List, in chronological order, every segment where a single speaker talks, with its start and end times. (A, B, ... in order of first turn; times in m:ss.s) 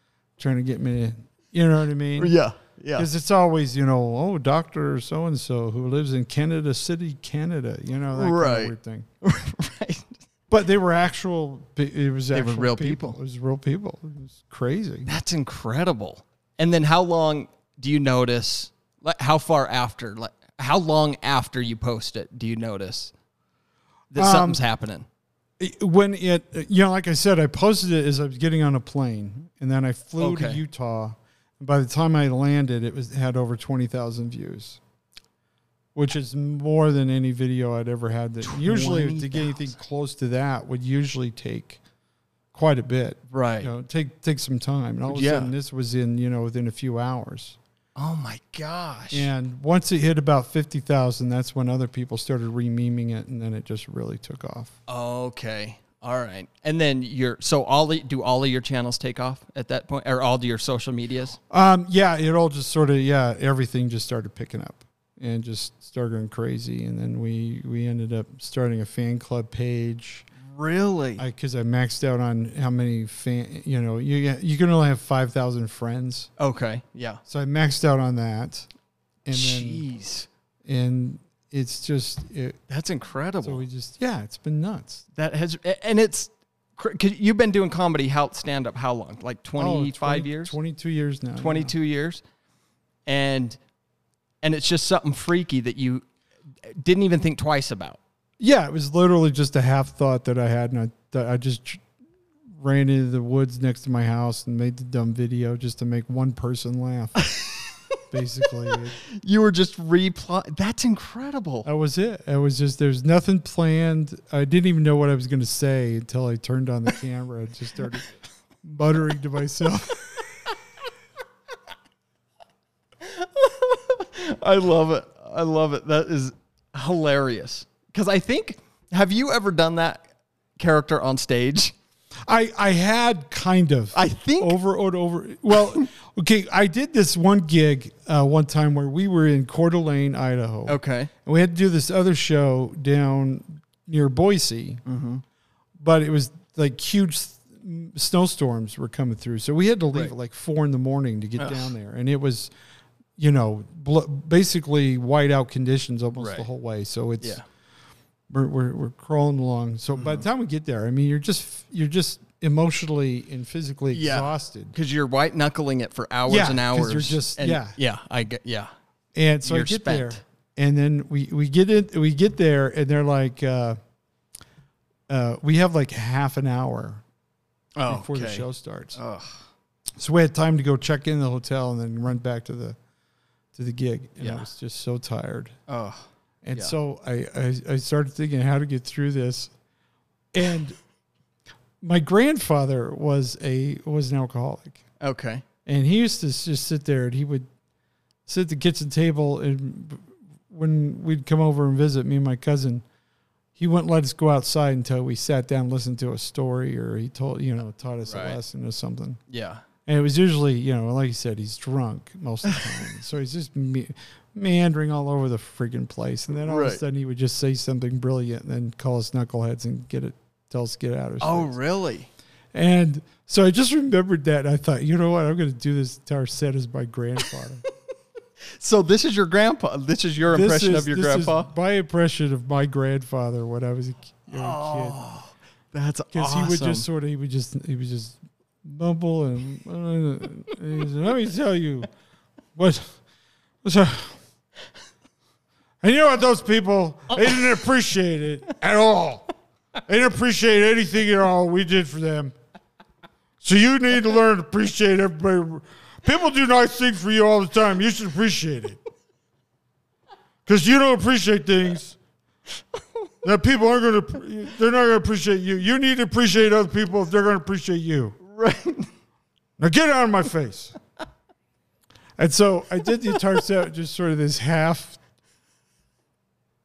0:00.4-0:02.4 A
0:02.2-0:03.1 B
0:03.0-0:09.1 A
0:08.1-0:10.2 B
0:10.5-0:15.1 A
0:12.3-0:13.2 B
0:15.1-0:23.1 B
0:24.1-0:25.1 B
0:24.1-0:24.6 A
0:25.6-0:34.8 A
0:30.2-0:30.6 B
0:35.9-0:41.8 A
0:38.4-0:39.7 B
0:42.5-0:47.6 A
0:43.3-0:43.7 B
0:45.1-0:45.5 B
0:48.0-0:49.3 B
0:49.1-0:54.7 A
0:54.9-1:01.4 B
1:01.5-1:10.3 A
1:10.4-1:11.2 B
1:11.2-1:16.3 A
1:16.4-1:17.2 B
1:17.3-1:18.7 A
1:19.2-1:19.8 A
1:19.3-1:20.3 B
1:20.6-1:22.6 A
1:22.7-1:23.6 B
1:23.4-1:25.0 A
1:25.2-1:30.5 B
1:29.6-1:31.7 A
1:31.4-1:32.2 B
1:33.0-1:33.6 B
1:34.4-1:36.0 B
1:36.7-1:38.0 B
1:38.4-1:41.8 A
1:42.5-1:47.3 A
1:47.3-1:47.7 B
1:48.1-1:49.0 A
1:48.5-1:51.7 B
1:51.6-1:58.1 A
1:58.6-2:00.2 A
2:03.0-2:10.0 B
2:10.6-2:11.7 B
2:12.3-2:24.8 A
2:13.9-2:14.6 B
2:20.7-2:21.1 B
2:24.8-2:25.2 B
2:25.8-2:32.5 A
2:31.4-2:31.7 B
2:33.2-2:37.4 A
2:36.2-2:36.5 B
2:38.3-2:44.7 A
2:39.9-2:40.2 B
2:43.9-2:48.7 B
2:46.3-2:47.8 A
2:49.1-2:53.8 A
2:49.4-2:50.2 B
2:55.1-2:57.0 A
2:57.8-2:59.4 B
2:57.9-2:59.0 A
3:00.0-3:02.8 A
3:03.5-3:05.5 A
3:04.2-3:04.4 B
3:05.7-3:06.7 B
3:06.4-3:09.5 A
3:10.3-3:10.8 A
3:11.8-3:14.8 A
3:15.0-3:15.4 B
3:15.6-3:17.5 A
3:18.3-3:22.8 A
3:23.6-3:29.2 A
3:28.0-3:28.4 B
3:29.3-3:29.6 B
3:29.8-3:41.5 A
3:36.4-3:36.8 B
3:41.2-3:42.1 B
3:42.5-3:47.6 A
3:48.5-3:51.5 B
3:50.3-3:55.0 A
3:54.3-3:56.8 B
3:56.1-4:01.9 A
4:02.6-4:03.0 A
4:03.6-4:04.2 A
4:05.8-4:09.3 A
4:09.8-4:12.3 A
4:13.4-4:18.8 A
4:20.4-4:22.0 A
4:23.2-4:28.2 A
4:28.2-4:28.9 B
4:29.6-4:30.7 A
4:32.2-4:35.0 A